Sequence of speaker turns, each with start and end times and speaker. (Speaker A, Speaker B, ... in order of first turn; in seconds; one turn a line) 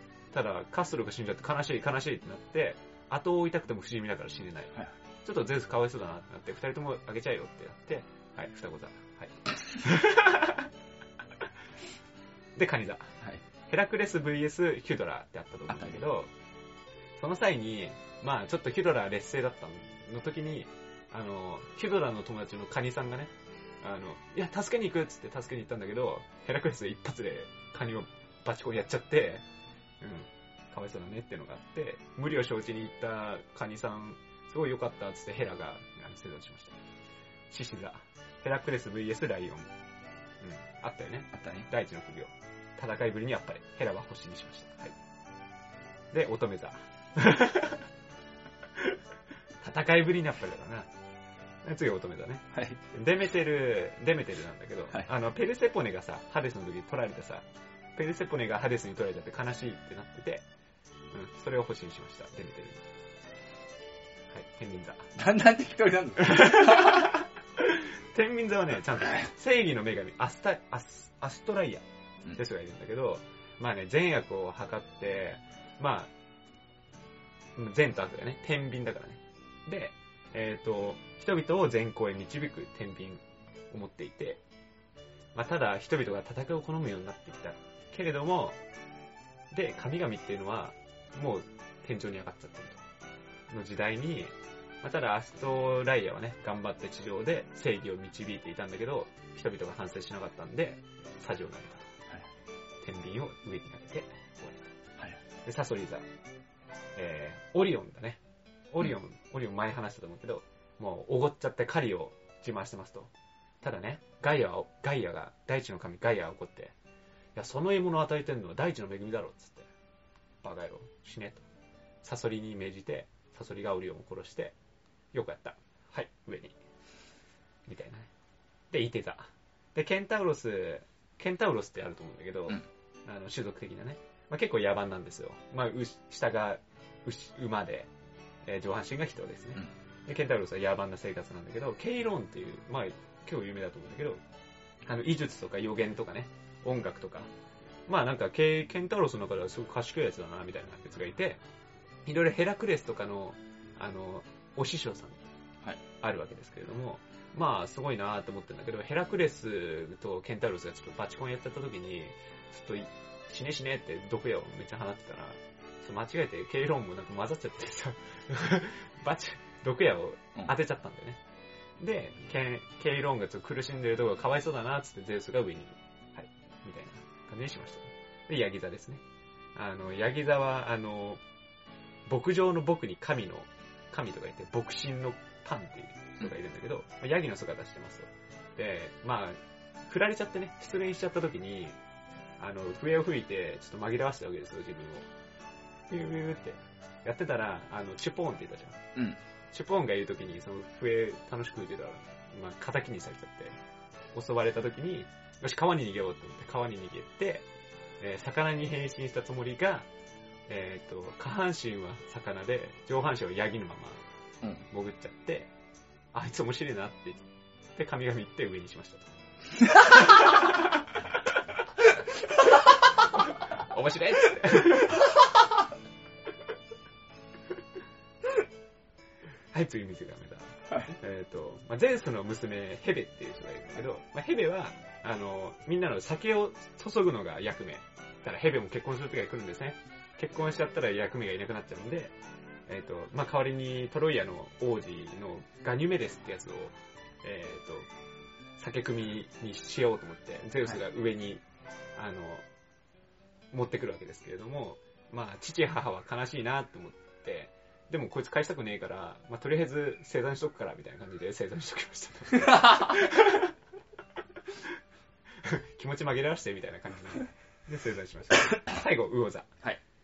Speaker A: 0.3-10.7
Speaker A: 12.6-13.1
Speaker A: 13.7-16.3
Speaker B: 15.7-16.0
Speaker A: 17.2-23.3
Speaker A: 23.8-29.4
Speaker A: 30.0-36.8
Speaker A: 37.5-39.7
Speaker A: 40.4-45.0
Speaker B: 41.3-41.7
Speaker A: 46.1-47.9
Speaker A: 49.6-50.9
Speaker A: 51.6-60.4
Speaker B: 52.5-52.8
Speaker A: 61.1-62.8
Speaker A: 64.3-65.1
Speaker B: 65.1-67.2
Speaker A: 66.2-76.1
Speaker A: 77.5-84.4
Speaker A: 85.3-88.6
Speaker A: 89.5-92.8
Speaker A: 93.5-101.9
Speaker A: 102.8-104.7
Speaker A: 105.4-106.0
Speaker A: 106.9-108.2
Speaker A: 108.7-113.1
Speaker A: 113.6-116.7
Speaker A: 117.3-119.7
Speaker A: 120.4-121.5
Speaker A: 122.0-124.5
Speaker A: 125.1-126.5
Speaker A: 127.7-128.1
Speaker A: 128.7-137.9
Speaker A: 138.4-144.2
Speaker A: 144.8-147.3
Speaker A: 147.9-151.4
Speaker A: 152.0-155.2
Speaker A: 156.0-171.2
Speaker A: 171.8-179.0
Speaker A: 179.5-181.2
Speaker A: 182.1-191.8
Speaker A: 192.4-195.1
Speaker A: 195.9-198.8
Speaker A: 199.5-203.6
Speaker A: 204.1-207.4
Speaker A: 208.0-209.9
Speaker A: 210.5-214.0
Speaker A: 214.7-215.5
Speaker A: 216.1-219.1
Speaker A: 219.7-220.9
Speaker A: 223.0-225.1
Speaker A: 229.5-242.1
Speaker A: 242.7-247.9
Speaker A: 248.6-251.4
Speaker A: 251.9-252.4
Speaker A: 253.5-263.5
Speaker B: 262.5-262.9
Speaker A: 265.4-269.5